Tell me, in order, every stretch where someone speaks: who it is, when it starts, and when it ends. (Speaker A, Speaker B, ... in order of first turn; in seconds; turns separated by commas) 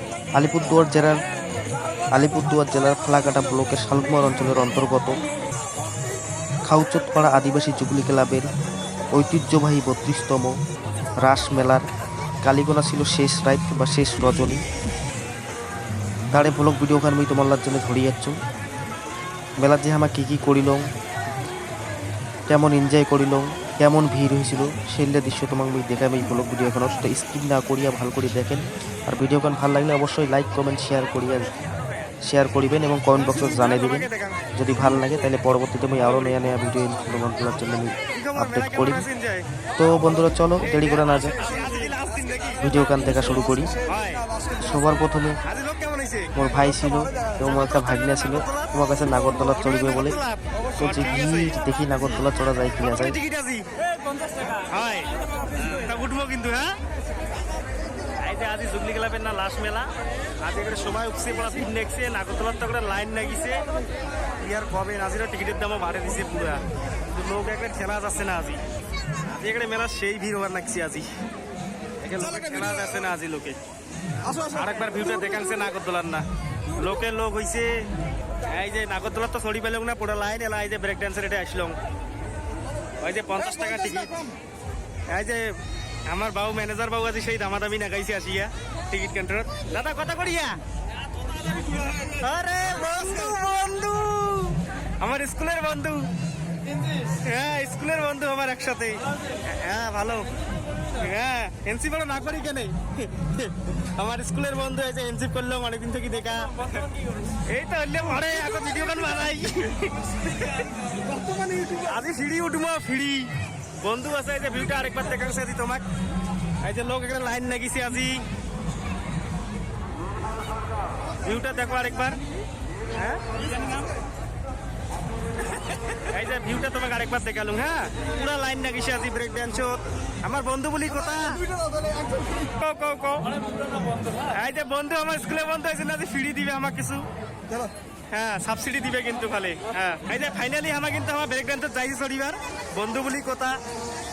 Speaker A: 0.4-1.2, Speaker A: 2.2-5.2, Speaker A: 6.7-8.5, Speaker A: 9.1-10.6, Speaker A: 11.2-11.8, Speaker A: 12.4-14.6, Speaker A: 16.3-18.4, Speaker A: 19.6-20.8, Speaker A: 22.5-31.5, Speaker A: 32.3-39.1, Speaker B: 33.4-34.4, Speaker B: 38.1-39.5, Speaker A: 39.8-41.4, Speaker B: 40.6-42.7, Speaker A: 42.6-43.7, Speaker B: 43.9-44.2, Speaker A: 44.7-45.4, Speaker B: 45.5-46.3, Speaker A: 46.4-50.2, Speaker B: 47.4-48.8, Speaker B: 49.5-51.5, Speaker A: 50.8-53.2, Speaker B: 52.8-53.7, Speaker B: 54.7-55.1, Speaker B: 55.6-56.8, Speaker B: 58.2-59.9, Speaker B: 60.4-63.6, Speaker B: 64.4-68.6, Speaker B: 69.3-71.1, Speaker B: 72.0-73.6, Speaker B: 74.5-76.2, Speaker B: 76.8-77.9, Speaker B: 78.5-81.8, Speaker B: 83.0-84.2, Speaker B: 85.1-85.5, Speaker B: 86.1-90.6, Speaker B: 92.2-96.1, Speaker B: 97.2-99.0, Speaker B: 99.5-100.3, Speaker B: 101.0-106.5, Speaker B: 107.5-109.9, Speaker B: 111.8-113.3, Speaker B: 113.8-115.8, Speaker B: 116.6-118.2, Speaker B: 121.2-122.2, Speaker B: 126.1-131.4, Speaker B: 132.6-133.3, Speaker B: 134.3-137.1, Speaker B: 138.1-143.6